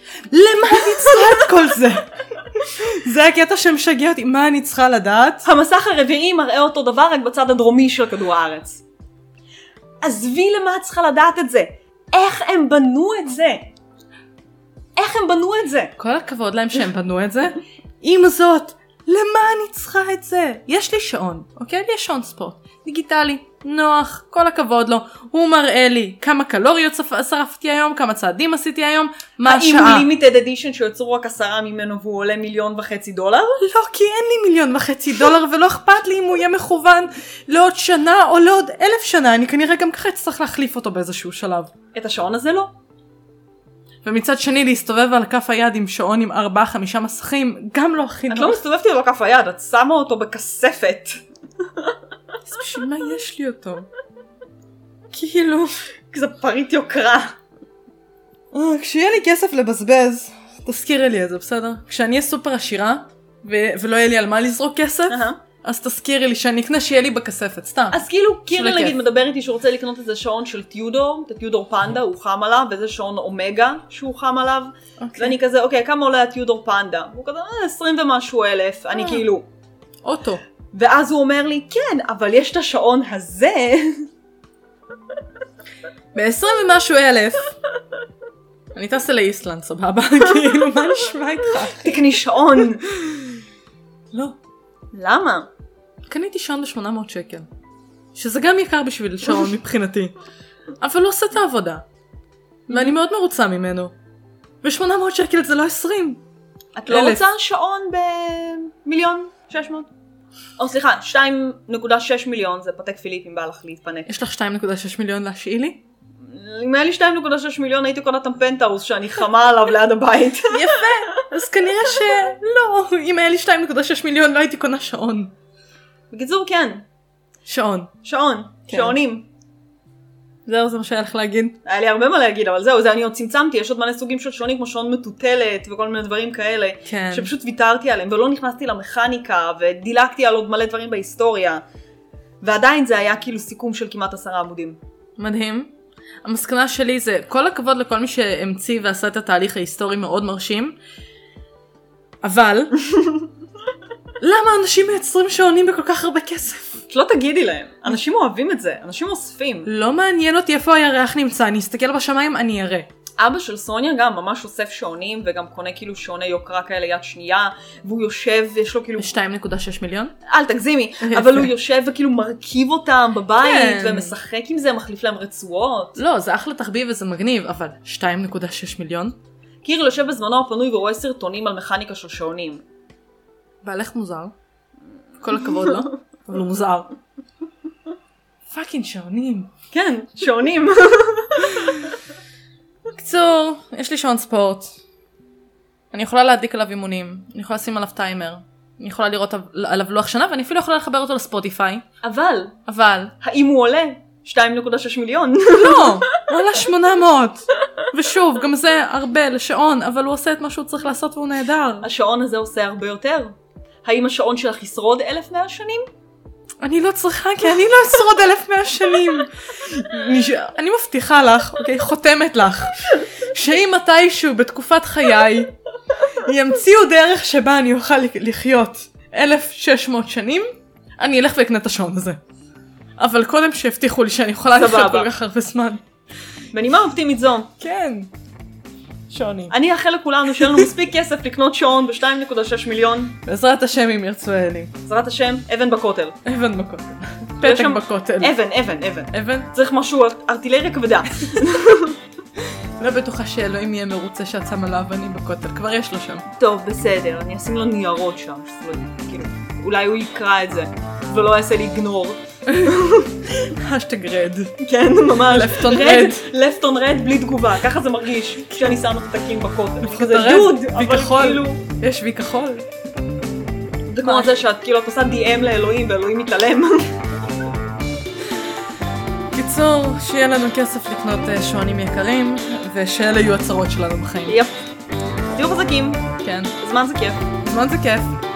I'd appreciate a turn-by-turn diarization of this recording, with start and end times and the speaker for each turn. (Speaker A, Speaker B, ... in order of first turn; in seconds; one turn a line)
Speaker A: 0.3-5.5
Speaker B: 0.7-1.4
Speaker B: 5.4-8.8
Speaker B: 10.0-13.7
Speaker B: 15.0-15.9
Speaker A: 16.0-30.1
Speaker B: 29.4-33.6
Speaker A: 33.6-41.7
Speaker B: 41.9-42.7
Speaker A: 44.0-48.6
Speaker B: 48.3-51.2
Speaker A: 52.5-53.9
Speaker A: 55.1-55.8
Speaker B: 56.1-57.4
Speaker A: 58.5-69.0
Speaker B: 65.1-65.4
Speaker B: 67.9-79.5
Speaker A: 75.0-75.4
Speaker A: 78.9-79.2
Speaker A: 80.0-80.4
Speaker B: 80.7-84.1
Speaker A: 86.1-87.5
Speaker A: 88.7-92.0
Speaker B: 91.6-92.9
Speaker A: 92.8-93.4
Speaker A: 94.1-94.4
Speaker B: 94.9-95.5
Speaker A: 96.0-97.5
Speaker A: 98.1-100.1
Speaker A: 100.8-101.9
Speaker A: 102.7-103.9
Speaker A: 104.6-106.2
Speaker B: 106.8-109.9
Speaker A: 106.9-107.2
Speaker B: 110.6-114.1
Speaker A: 114.0-115.8
Speaker B: 116.2-120.9
Speaker A: 120.5-125.3
Speaker B: 126.1-126.9
Speaker A: 127.5-127.9
Speaker B: 128.0-129.3
Speaker A: 128.7-129.0
Speaker A: 130.4-131.6
Speaker B: 131.6-141.6
Speaker A: 136.9-137.3
Speaker B: 142.4-144.8
Speaker A: 145.2-145.7
Speaker A: 146.2-150.8
Speaker A: 152.2-152.8
Speaker A: 154.2-156.8
Speaker B: 156.9-159.7
Speaker A: 159.7-162.9
Speaker B: 163.2-169.1
Speaker A: 169.0-170.1
Speaker B: 170.3-176.0
Speaker A: 171.0-171.5
Speaker A: 173.3-174.2
Speaker A: 175.9-179.2
Speaker B: 179.6-182.6
Speaker A: 183.6-184.3
Speaker A: 185.2-186.9
Speaker A: 188.5-189.5
Speaker B: 189.7-191.9
Speaker A: 192.9-194.8
Speaker A: 195.9-201.8
Speaker B: 202.0-202.6
Speaker A: 202.7-203.1
Speaker B: 203.2-206.2
Speaker A: 205.5-211.9
Speaker B: 211.8-213.3
Speaker B: 213.8-215.9
Speaker A: 216.6-232.2
Speaker A: 233.0-235.8
Speaker B: 234.5-235.1
Speaker B: 236.5-237.5
Speaker A: 237.6-238.1
Speaker A: 239.1-239.5
Speaker B: 239.5-243.2
Speaker A: 240.4-240.7
Speaker A: 243.2-244.8
Speaker B: 244.9-246.2
Speaker A: 246.2-248.4
Speaker B: 247.4-252.0
Speaker A: 249.1-249.5
Speaker A: 252.8-256.2
Speaker B: 256.3-263.2
Speaker A: 262.5-262.8
Speaker A: 263.4-264.6
Speaker B: 264.6-271.6
Speaker A: 265.2-266.3
Speaker A: 269.8-272.7
Speaker B: 273.9-276.9
Speaker A: 274.0-274.3
Speaker A: 279.3-284.4
Speaker B: 284.3-284.7
Speaker B: 285.3-286.0
Speaker A: 286.2-286.6
Speaker B: 286.6-287.2
Speaker A: 287.4-288.2